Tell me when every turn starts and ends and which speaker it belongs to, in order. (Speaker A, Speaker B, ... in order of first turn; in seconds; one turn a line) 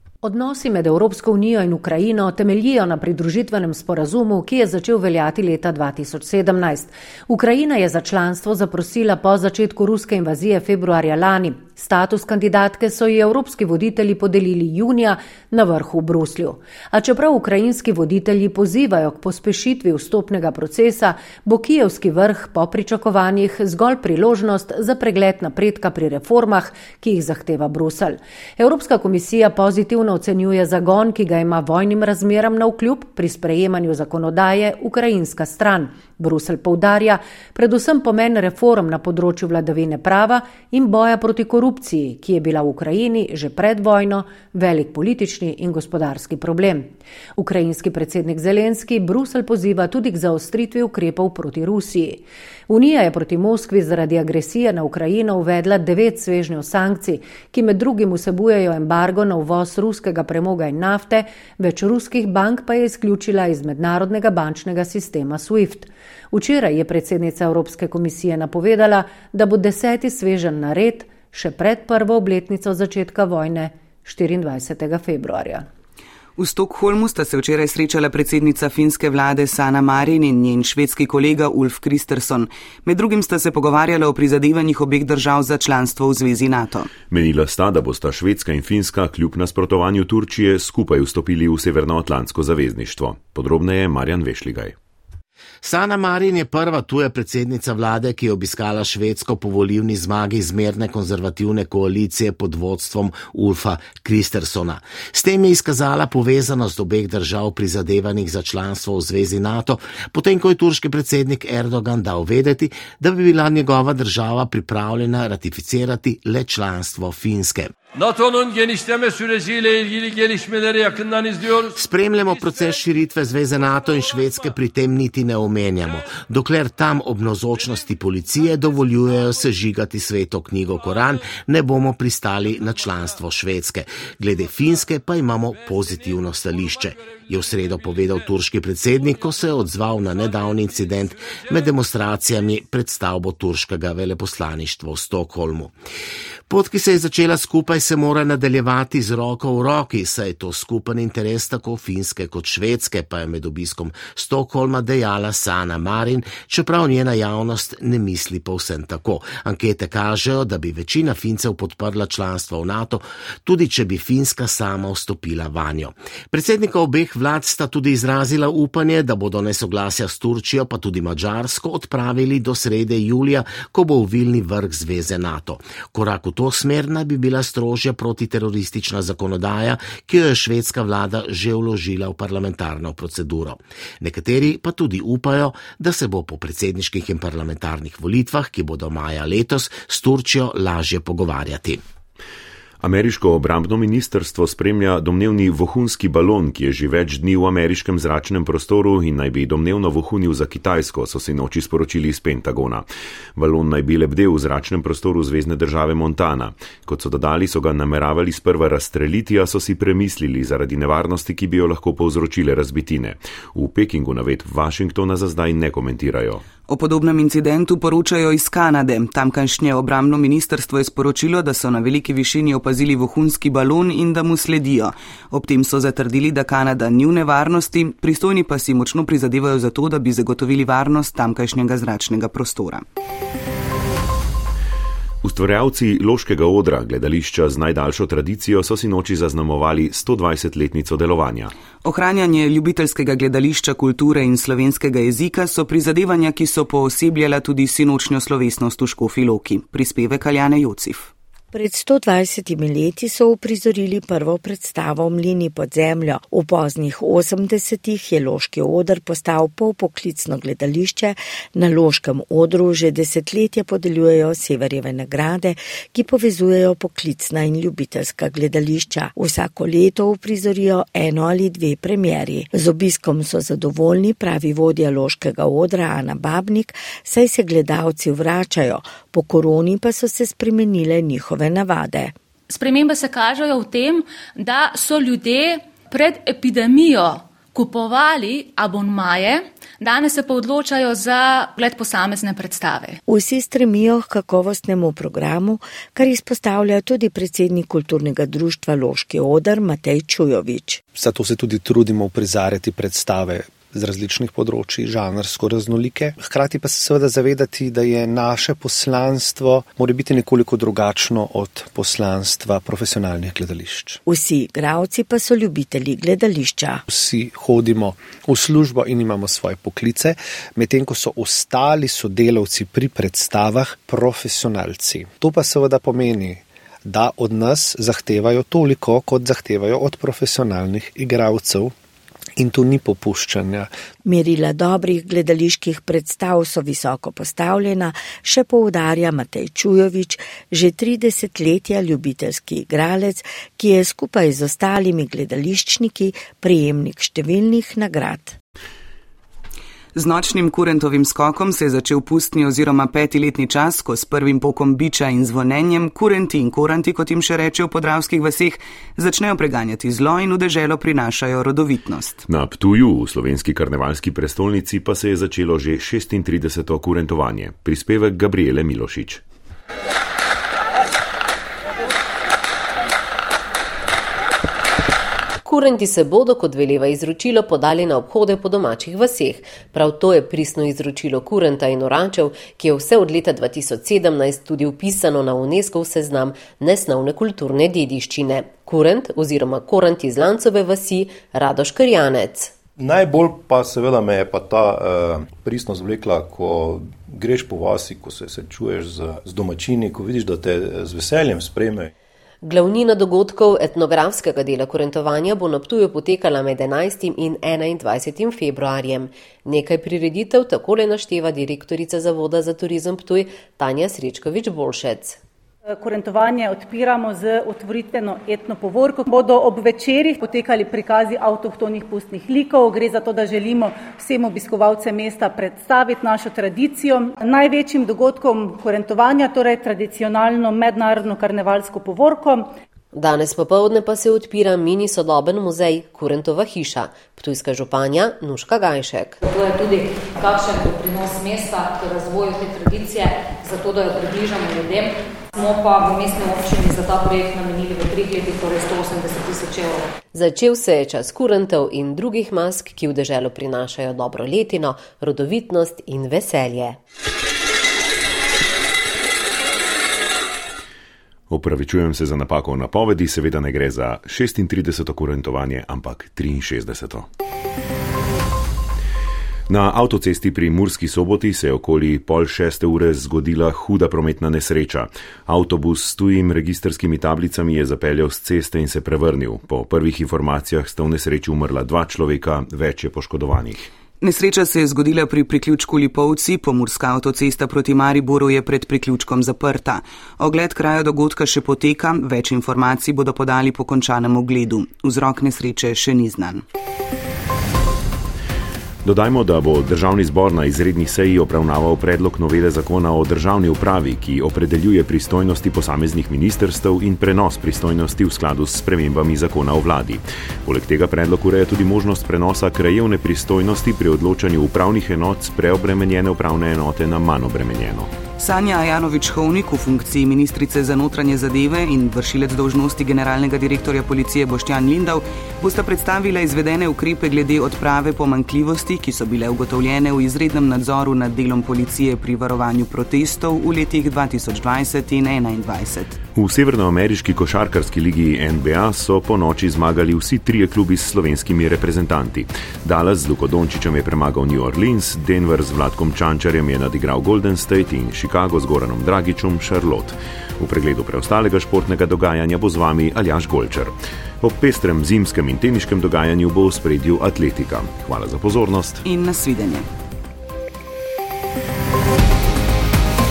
Speaker A: 0.2-75.6
Speaker B: 76.4-86.9
Speaker C: 85.7-86.2
Speaker D: 87.1-94.7
Speaker E: 95.6-117.7
Speaker C: 118.0-121.4
Speaker E: 121.7-145.7
Speaker E: 146.5-191.8
Speaker D: 192.8-216.4
Speaker B: 216.7-232.8
Speaker D: 235.2-241.5
Speaker B: 241.9-251.1
Speaker C: 243.6-243.9
Speaker C: 248.2-248.8
Speaker F: 251.5-282.1
Speaker G: 282.5-293.0
Speaker F: 293.1-300.8
Speaker H: 300.9-314.0
Speaker F: 314.1-316.8
Speaker H: 316.9-331.7
Speaker H: 332.4-333.7
Speaker F: 334.1-348.3
Speaker B: 349.9-362.2
Speaker D: 362.3-369.2
Speaker I: 375.4-392.5
Speaker J: 392.8-401.9
Speaker I: 402.4-415.2
Speaker K: 415.8-432.5
Speaker I: 432.9-439.2
Speaker L: 439.2-449.8
Speaker I: 450.1-456.8
Speaker D: 461.3-467.1
Speaker D: 469.5-483.6
Speaker B: 484.0-496.4
Speaker D: 498.8-517.9
Speaker B: 518.2-536.0
Speaker D: 536.1-558.8
Speaker B: 558.9-559.6